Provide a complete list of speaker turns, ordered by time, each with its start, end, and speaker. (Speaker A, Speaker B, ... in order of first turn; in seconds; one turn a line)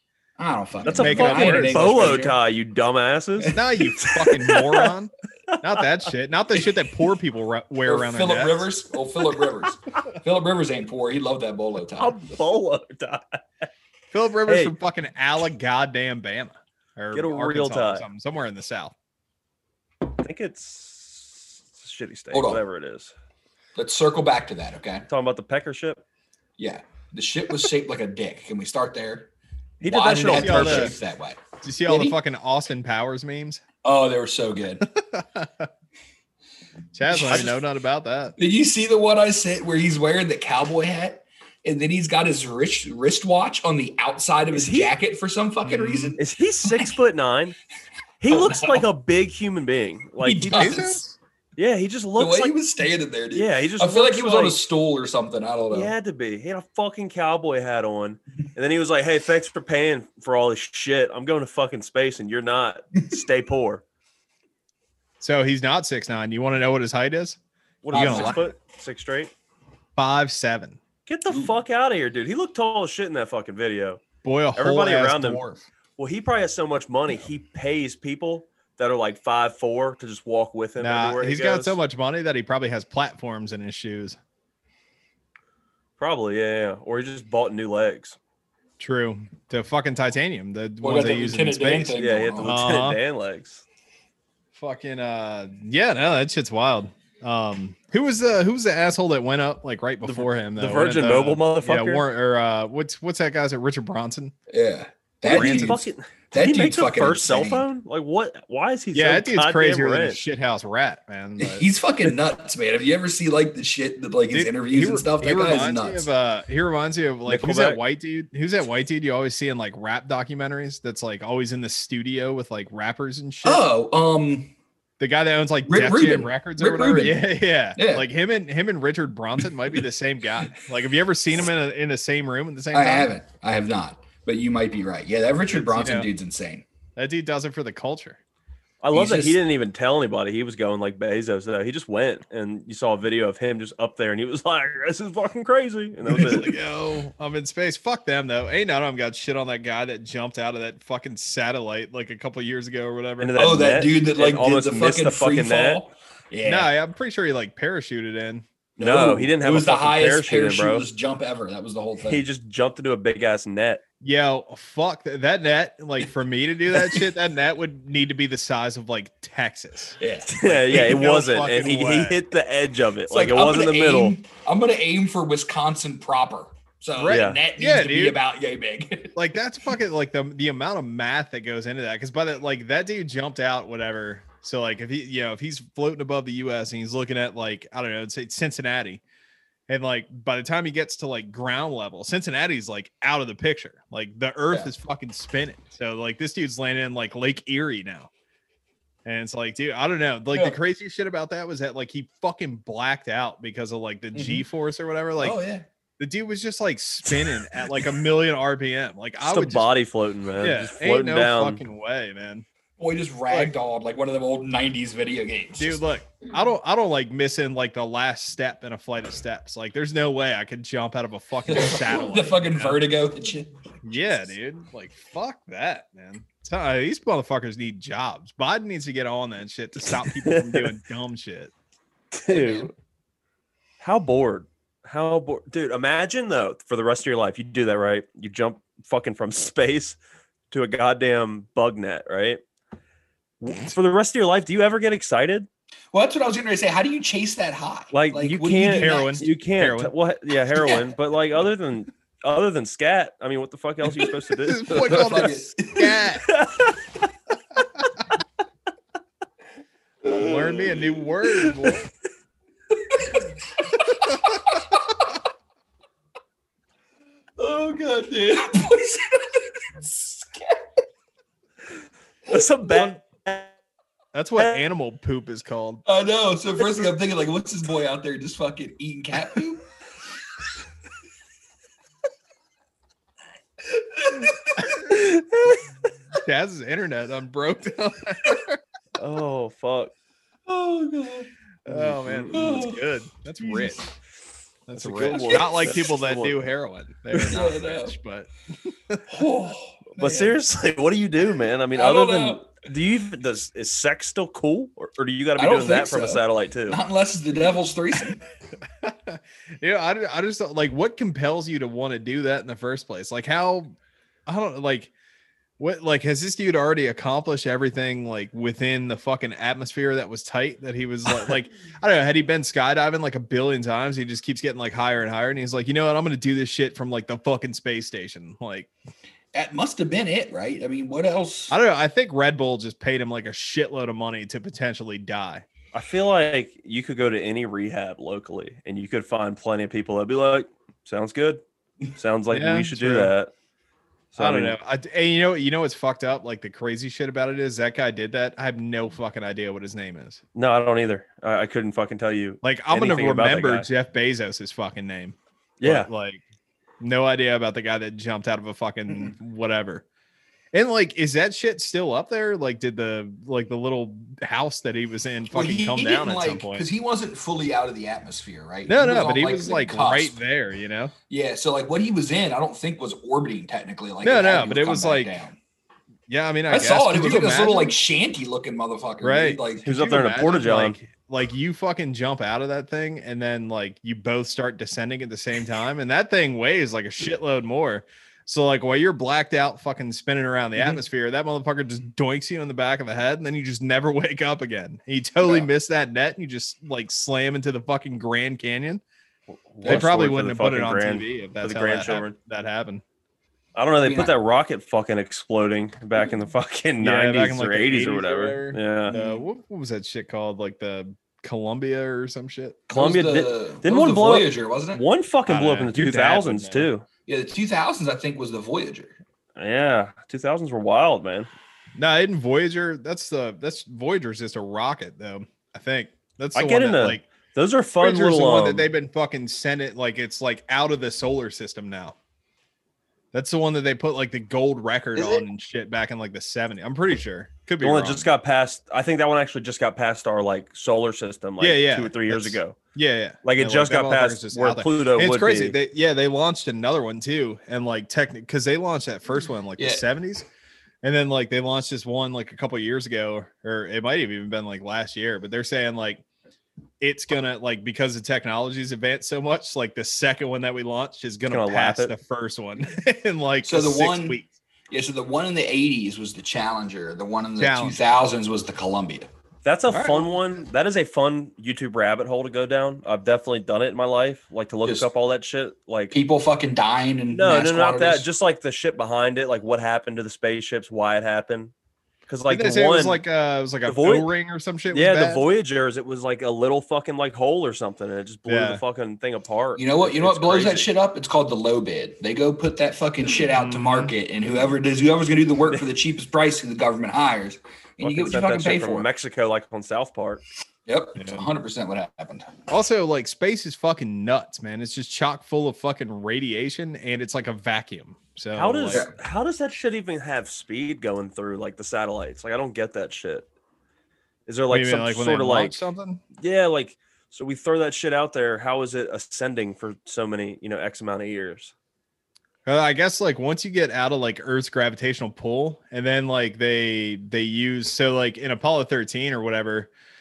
Speaker A: 0.4-2.4
Speaker B: 0.8-4.9
Speaker C: 0.9-2.2
Speaker C: 3.5-8.7
Speaker B: 5.5-5.8
Speaker A: 7.8-12.1
Speaker B: 12.0-13.7
Speaker C: 14.1-18.9
Speaker B: 14.5-14.7
Speaker B: 17.1-18.1
Speaker B: 20.1-23.1
Speaker A: 22.3-22.6
Speaker A: 23.8-25.1
Speaker B: 25.1-26.0
Speaker A: 26.6-29.3
Speaker B: 29.8-30.9
Speaker A: 29.8-32.2
Speaker C: 30.3-30.9
Speaker C: 31.6-33.6
Speaker A: 33.8-34.9
Speaker C: 34.9-35.7
Speaker C: 36.9-38.3
Speaker A: 37.1-37.5
Speaker A: 38.4-46.9
Speaker B: 44.5-44.9
Speaker C: 45.6-46.1
Speaker B: 46.2-47.5
Speaker B: 48.2-50.9
Speaker A: 48.3-48.8
Speaker A: 50.2-51.0
Speaker C: 50.5-51.2
Speaker B: 51.6-52.5
Speaker A: 52.2-55.9
Speaker B: 53.3-54.6
Speaker B: 55.7-63.8
Speaker C: 65.2-67.4
Speaker B: 67.8-69.3
Speaker A: 67.9-68.5
Speaker C: 67.9-68.4
Speaker C: 70.0-70.8
Speaker B: 71.1-74.0
Speaker C: 74.2-75.6
Speaker B: 74.5-75.4
Speaker B: 76.0-81.8
Speaker C: 80.8-84.2
Speaker B: 86.0-88.2
Speaker C: 88.8-93.0
Speaker A: 90.8-92.6
Speaker B: 92.0-93.6
Speaker C: 94.5-104.3
Speaker B: 100.0-102.0
Speaker A: 104.5-107.7
Speaker C: 105.2-105.8
Speaker B: 105.2-110.2
Speaker C: 108.9-111.7
Speaker A: 111.4-116.0
Speaker C: 114.3-123.7
Speaker B: 117.3-117.8
Speaker A: 123.4-124.5
Speaker C: 125.0-133.1
Speaker A: 125.7-128.1
Speaker A: 132.7-136.6
Speaker C: 135.5-136.1
Speaker C: 136.9-138.2
Speaker B: 138.8-146.5
Speaker A: 138.9-139.4
Speaker C: 146.2-153.4
Speaker B: 153.2-155.8
Speaker A: 153.4-156.7
Speaker C: 156.4-158.4
Speaker B: 158.8-160.8
Speaker A: 158.8-162.2
Speaker B: 162.1-163.8
Speaker C: 164.0-172.2
Speaker A: 170.0-170.3
Speaker B: 170.3-174.1
Speaker A: 173.1-179.2
Speaker C: 177.0-178.2
Speaker B: 177.1-177.4
Speaker C: 179.1-189.0
Speaker C: 189.7-198.1
Speaker C: 199.0-205.4
Speaker A: 200.3-200.6
Speaker A: 204.1-204.4
Speaker A: 205.2-205.7
Speaker C: 206.0-209.7
Speaker B: 209.2-211.6
Speaker C: 210.4-212.4
Speaker A: 212.8-215.8
Speaker C: 215.6-222.9
Speaker A: 221.5-224.1
Speaker C: 223.8-231.5
Speaker B: 230.0-230.7
Speaker B: 232.1-232.7
Speaker A: 232.3-232.7
Speaker B: 233.8-240.0
Speaker B: 240.5-242.4
Speaker B: 243.4-245.5
Speaker A: 245.9-249.3
Speaker B: 247.9-255.3
Speaker C: 248.8-249.9
Speaker C: 254.4-256.3
Speaker A: 254.7-255.9
Speaker B: 256.2-256.8
Speaker C: 260.1-261.9
Speaker B: 260.1-261.8
Speaker A: 267.4-270.6
Speaker B: 272.3-273.5
Speaker C: 272.7-272.9
Speaker C: 274.1-275.8
Speaker A: 275.9-279.6
Speaker A: 283.7-284.3
Speaker B: 284.8-285.6
Speaker C: 286.2-288.6
Speaker B: 288.9-289.9
Speaker A: 290.5-291.3
Speaker C: 291.6-293.8
Speaker B: 291.7-292.6
Speaker A: 292.3-292.8
Speaker C: 294.7-299.1
Speaker B: 294.7-296.4
Speaker A: 295.2-295.6
Speaker A: 297.3-297.9
Speaker A: 299.1-300.4
Speaker B: 300.0-306.8
Speaker A: 301.7-302.5
Speaker A: 305.4-308.2
Speaker C: 308.8-313.7
Speaker C: 314.3-314.9
Speaker C: 315.6-328.7
Speaker A: 329.3-331.6
Speaker C: 331.5-335.4
Speaker B: 335.7-341.4
Speaker B: 341.9-343.3
Speaker C: 342.3-343.1
Speaker B: 344.1-344.6
Speaker C: 344.2-350.2
Speaker B: 350.3-353.7
Speaker C: 352.4-356.2
Speaker B: 355.6-355.9
Speaker C: 356.8-359.8
Speaker C: 360.5-366.7
Speaker A: 365.3-370.2
Speaker C: 368.7-370.9
Speaker A: 371.1-375.4
Speaker C: 374.0-375.1
Speaker C: 376.1-377.7
Speaker A: 376.5-379.7
Speaker C: 379.0-398.8
Speaker B: 379.6-380.8
Speaker B: 399.5-402.1
Speaker C: 399.6-402.8
Speaker B: 403.5-408.9
Speaker A: 403.8-404.1
Speaker C: 406.8-412.6
Speaker A: 408.9-409.2
Speaker A: 412.7-414.8
Speaker B: 412.7-416.8
Speaker C: 415.3-416.7
Speaker A: 417.1-418.9
Speaker B: 419.4-421.3
Speaker C: 421.8-427.0
Speaker B: 426.3-428.7
Speaker C: 427.8-431.9
Speaker C: 433.1-438.1
Speaker A: 434.9-435.2
Speaker B: 437.6-442.6
Speaker C: 441.4-450.2
Speaker B: 443.2-445.6
Speaker A: 449.6-449.8
Speaker C: 450.8-456.0
Speaker C: 456.8-464.3
Speaker B: 461.3-461.9
Speaker A: 463.4-464.2
Speaker A: 464.7-469.1
Speaker C: 467.4-467.8
Speaker B: 469.4-475.9
Speaker C: 469.7-470.1
Speaker A: 475.9-478.1
Speaker B: 477.1-481.5
Speaker B: 482.1-483.0
Speaker C: 482.3-485.2
Speaker B: 483.6-484.1
Speaker B: 484.7-490.7
Speaker C: 488.2-488.6
Speaker A: 489.6-498.9
Speaker C: 493.3-493.9
Speaker B: 497.8-500.2
Speaker A: 500.7-502.4
Speaker C: 501.0-501.2
Speaker C: 502.5-508.8
Speaker B: 508.3-513.3
Speaker B: 514.3-515.6
Speaker C: 514.5-516.0
Speaker B: 516.2-521.5
Speaker C: 522.5-529.7